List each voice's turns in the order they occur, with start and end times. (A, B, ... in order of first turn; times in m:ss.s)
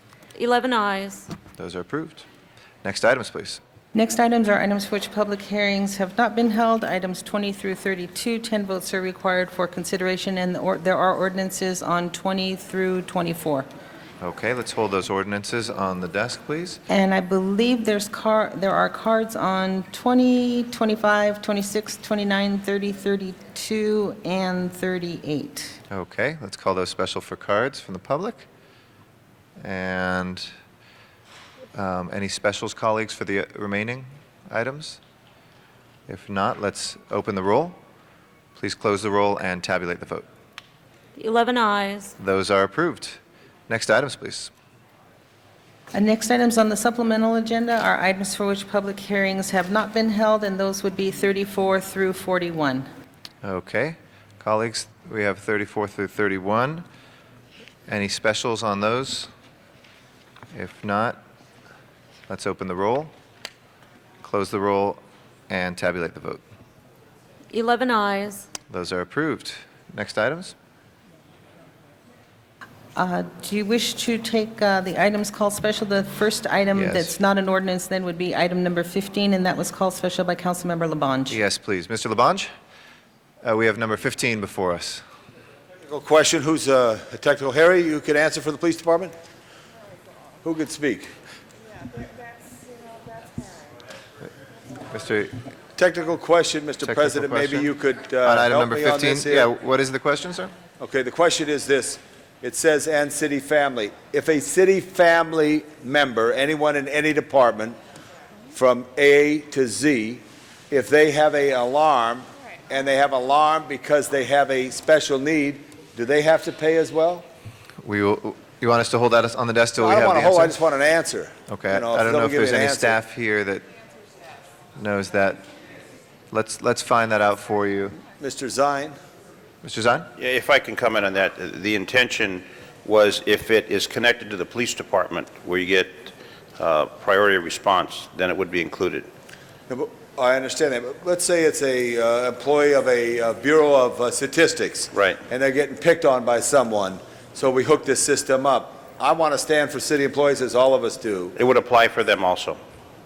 0:00.4-0:01.3 A
0:01.6-0:02.3 B
0:02.8-0:03.6 B
0:04.0-0:13.7 C
0:14.2-0:16.8 B
0:16.9-0:25.8 C
0:25.9-0:28.5 B
0:29.6-0:30.5 B
0:31.8-0:35.0 B
0:36.1-0:37.8 B
0:38.6-0:40.3 B
0:41.2-0:42.2 A
0:42.2-0:44.5 B
0:45.9-0:52.9 C
0:53.4-0:56.8 B
0:57.9-0:59.3 B
1:00.5-1:01.2 B
1:02.3-1:03.1 B
1:04.2-1:06.4 B
1:07.5-1:08.5 A
1:08.7-1:10.6 B
1:13.0-1:21.4 C
1:16.8-1:17.2 B
1:21.3-1:22.5 B
1:23.4-1:25.0 B
1:25.8-1:29.1 D
1:30.4-1:31.1 D
1:34.9-1:35.4 B
1:35.8-1:39.5 D
1:36.8-1:37.7 B
1:38.2-1:40.5 B
1:40.8-1:47.8 D
1:48.5-1:57.2 D
1:57.8-2:00.6 B
1:59.8-2:03.0 D
2:01.5-2:03.6 B
2:04.8-2:05.5 B
2:06.3-2:08.0 B
2:08.2-2:09.0 D
2:09.6-2:10.1 B
2:10.2-2:19.1 E
2:19.7-2:31.4 D
2:24.9-2:25.2 E
2:31.4-2:32.6 E